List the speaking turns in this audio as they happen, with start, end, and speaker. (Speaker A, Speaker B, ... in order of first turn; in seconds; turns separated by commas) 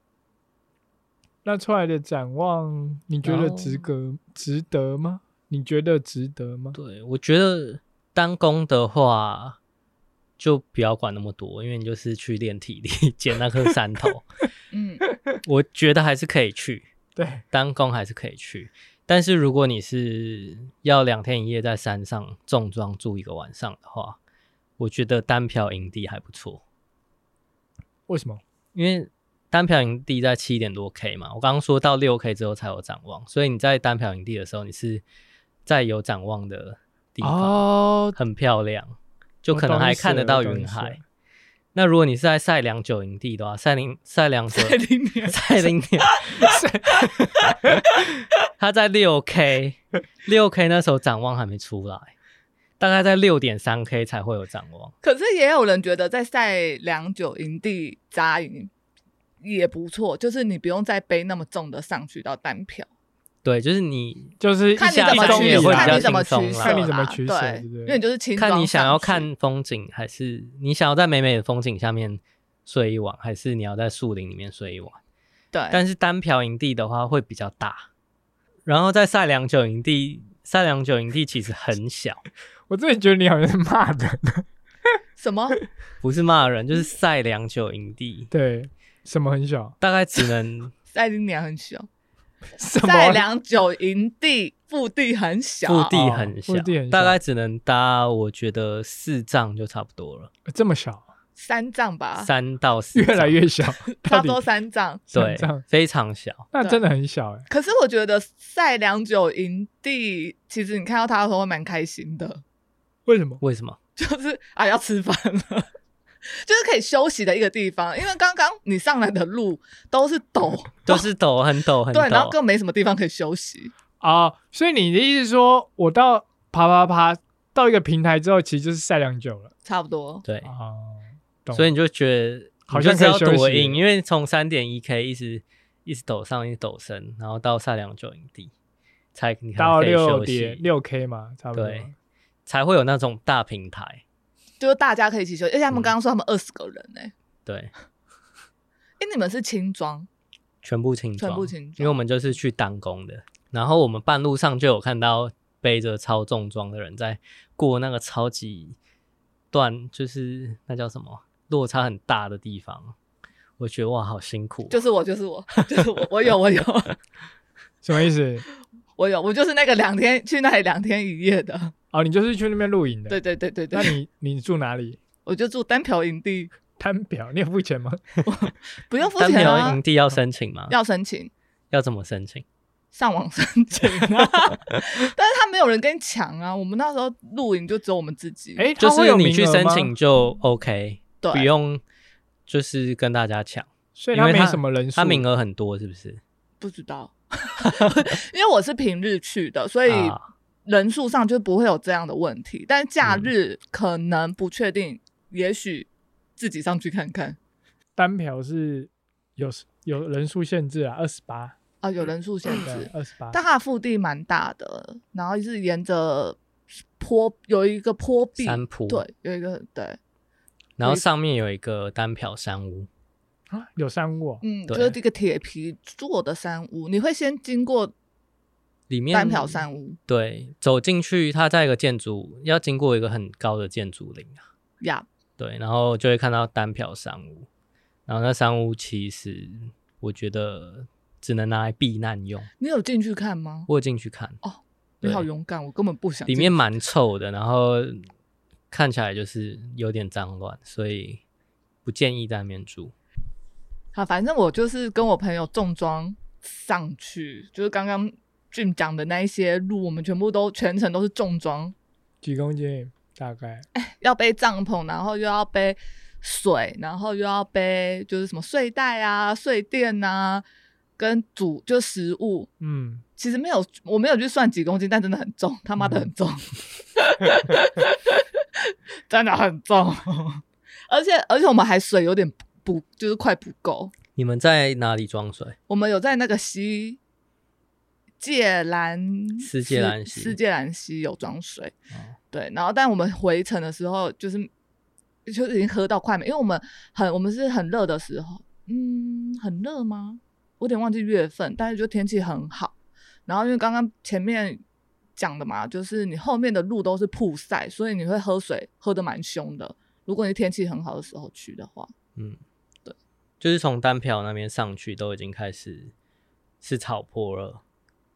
Speaker A: 1.4-6.8, Speaker B: 3.2-3.9, Speaker B: 6.8-9.6, Speaker B: 10.4-14.2, Speaker C: 14.7-15.0, Speaker B: 15.4-16.9, Speaker A: 17.2-17.4, Speaker B: 17.5-24.2, Speaker B: 24.8-26.6, Speaker A: 28.1-28.4, Speaker B: 28.7-35.0, Speaker B: 35.7-41.0, Speaker A: 37.2-38.2, Speaker A: 39.5-41.0, Speaker B: 41.7-46.5, Speaker C: 44.5-46.5, Speaker A: 46.4-47.1, Speaker B: 47.2-47.5, Speaker B: 48.6-52.1, Speaker B: 52.8-54.9, Speaker C: 55.0-58.7, Speaker C: 59.4-62.9, Speaker B: 63.4-66.9, Speaker A: 64.4-68.0, Speaker C: 64.8-69.3, Speaker B: 68.4-75.0, Speaker C: 75.5-75.8, Speaker B: 75.7-77.9, Speaker B: 78.7-82.2, Speaker A: 82.7-84.5, Speaker C: 85.2-85.6, Speaker B: 86.0-88.3, Speaker A: 88.3-89.8, Speaker B: 89.8-90.7, Speaker C: 90.9-91.9, Speaker A: 92.6-93.2, Speaker C: 92.8-95.9, Speaker B: 95.7-100.3, Speaker A: 95.9-97.2, Speaker A: 100.5-101.0, Speaker C: 101.4-102.3, Speaker B: 102.2-103.4, Speaker A: 102.9-104.4, Speaker C: 104.0-105.0, Speaker A: 105.1-105.6, Speaker B: 105.1-106.5, Speaker A: 106.5-107.5, Speaker C: 107.5-112.4, Speaker A: 113.1-113.4, Speaker B: 113.4-113.8, Speaker C: 114.0-115.7, Speaker C: 116.3-121.1, Speaker B: 120.9-122.4, Speaker C: 121.9-123.7, Speaker A: 124.0-129.5, Speaker C: 129.7-130.2, Speaker B: 130.2-130.5, Speaker A: 130.4-131.7, Speaker B: 131.5-138.5, Speaker A: 132.7-133.8, Speaker B: 139.2-140.7, Speaker A: 139.6-141.9, Speaker B: 141.5-141.9, Speaker B: 142.5-144.0, Speaker C: 144.6-147.1, Speaker B: 147.5-147.7, Speaker C: 149.0-150.1, Speaker B: 150.6-158.8, Speaker C: 151.2-152.0, Speaker B: 159.5-162.9, Speaker B: 163.6-164.8, Speaker C: 164.7-166.9, Speaker A: 167.8-168.5, Speaker C: 169.0-171.7, Speaker A: 171.9-173.2, Speaker C: 173.1-173.9, Speaker A: 173.7-175.0, Speaker C: 175.3-176.5, Speaker A: 176.8-178.2, Speaker C: 178.2-179.8, Speaker B: 179.2-180.8, Speaker C: 180.7-181.3, Speaker B: 181.7-182.4, Speaker C: 182.9-188.7, Speaker A: 188.6-189.9, Speaker B: 188.8-191.8, Speaker C: 191.2-191.5, Speaker B: 192.5-196.2, Speaker A: 194.0-195.2, Speaker C: 196.6-200.2, Speaker B: 199.9-200.2, Speaker C: 200.7-207.4, Speaker B: 203.0-203.3, Speaker A: 208.0-211.6, Speaker C: 211.8-216.4, Speaker A: 212.5-213.4, Speaker C: 217.0-220.0, Speaker B: 218.4-219.0, Speaker B: 220.8-222.9, Speaker A: 223.5-224.4, Speaker C: 224.4-227.9, Speaker B: 224.7-225.0, Speaker B: 228.9-234.4, Speaker C: 229.1-230.0, Speaker C: 234.8-235.1, Speaker B: 235.4-237.5, Speaker B: 238.1-242.5, Speaker C: 242.6-243.7, Speaker B: 243.7-244.4, Speaker C: 244.4-246.6, Speaker B: 246.3-248.1, Speaker B: 248.7-251.2, Speaker B: 251.8-252.9, Speaker C: 253.9-261.8, Speaker A: 262.2-263.7, Speaker C: 263.7-270.4, Speaker C: 271.0-272.5, Speaker A: 272.6-273.0, Speaker C: 273.2-283.9, Speaker B: 284.2-285.6, Speaker C: 285.7-287.0, Speaker C: 288.2-291.7, Speaker B: 289.4-290.4, Speaker C: 292.3-294.5, Speaker C: 295.3-302.7, Speaker C: 303.3-304.6, Speaker C: 305.2-311.9, Speaker B: 313.4-315.9, Speaker B: 316.6-317.6